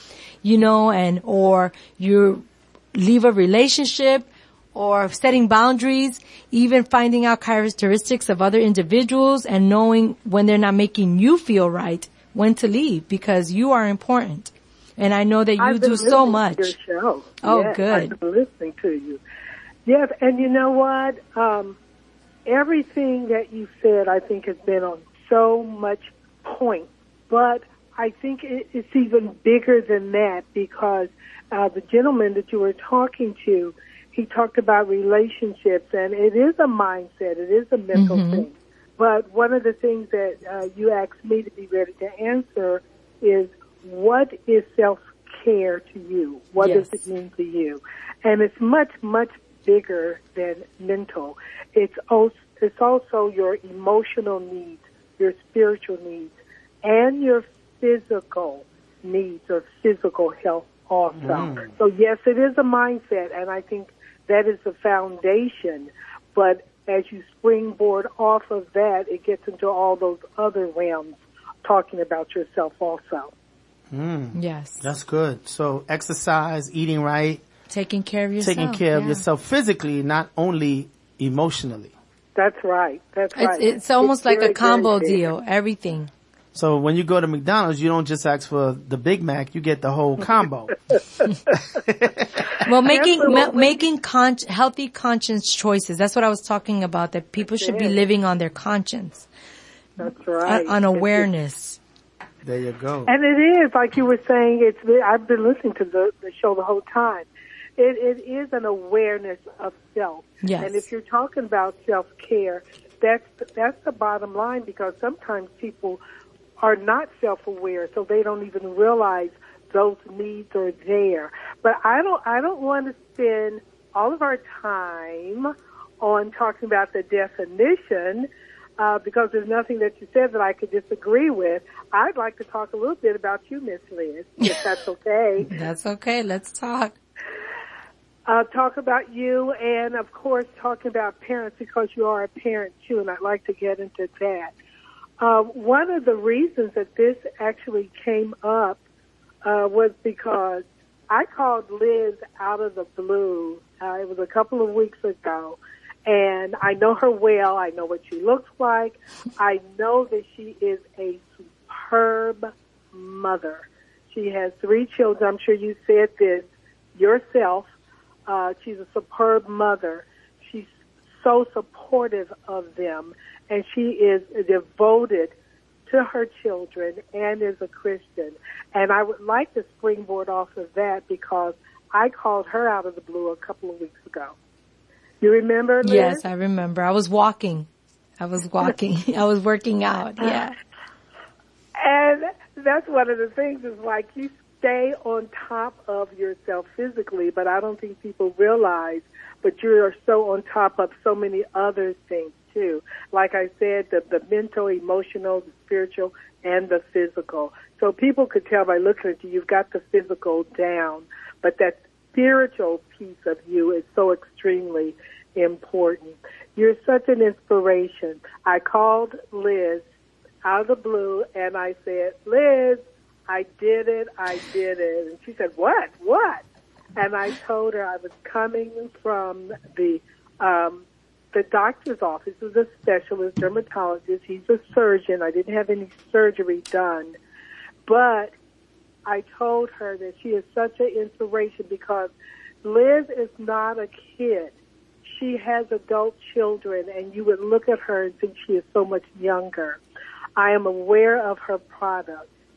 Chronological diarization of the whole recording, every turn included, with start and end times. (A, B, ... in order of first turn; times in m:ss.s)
0:00.4-0:16.7 A
0:15.6-0:19.2 B
0:17.4-0:18.2 A
0:19.8-0:21.8 B
0:22.4-1:13.3 B
0:37.9-0:38.4 A
0:46.6-0:47.0 A
1:01.1-1:01.7 C
1:13.9-1:17.4 C
1:14.3-1:14.8 A
1:17.7-1:19.2 A
1:18.4-1:21.9 C
1:22.4-1:25.2 B
1:23.3-1:26.1 A
1:26.5-1:30.7 C
1:31.5-1:32.5 C
1:32.6-1:39.3 A
1:32.8-1:33.8 B
1:37.4-1:38.0 B
1:40.0-1:41.3 B
1:40.4-1:41.8 A
1:42.4-1:43.1 C
1:43.1-1:56.0 B
1:50.4-1:50.8 A
1:56.6-2:08.3 B
2:08.8-2:15.5 B
2:15.5-2:17.0 A
2:18.3-2:24.5 B
2:25.2-2:28.8 B
2:29.4-2:47.7 B
2:48.3-2:55.3 B
2:55.9-3:04.3 B
3:05.2-3:06.2 B
3:05.8-3:07.7 A
3:08.2-3:10.5 A
3:11.8-3:39.8 B
3:40.4-3:46.4 B
3:47.0-3:57.1 B
3:57.8-3:58.3 B
3:59.0-4:02.1 B
4:02.6-4:09.8 B
4:10.4-4:12.3 B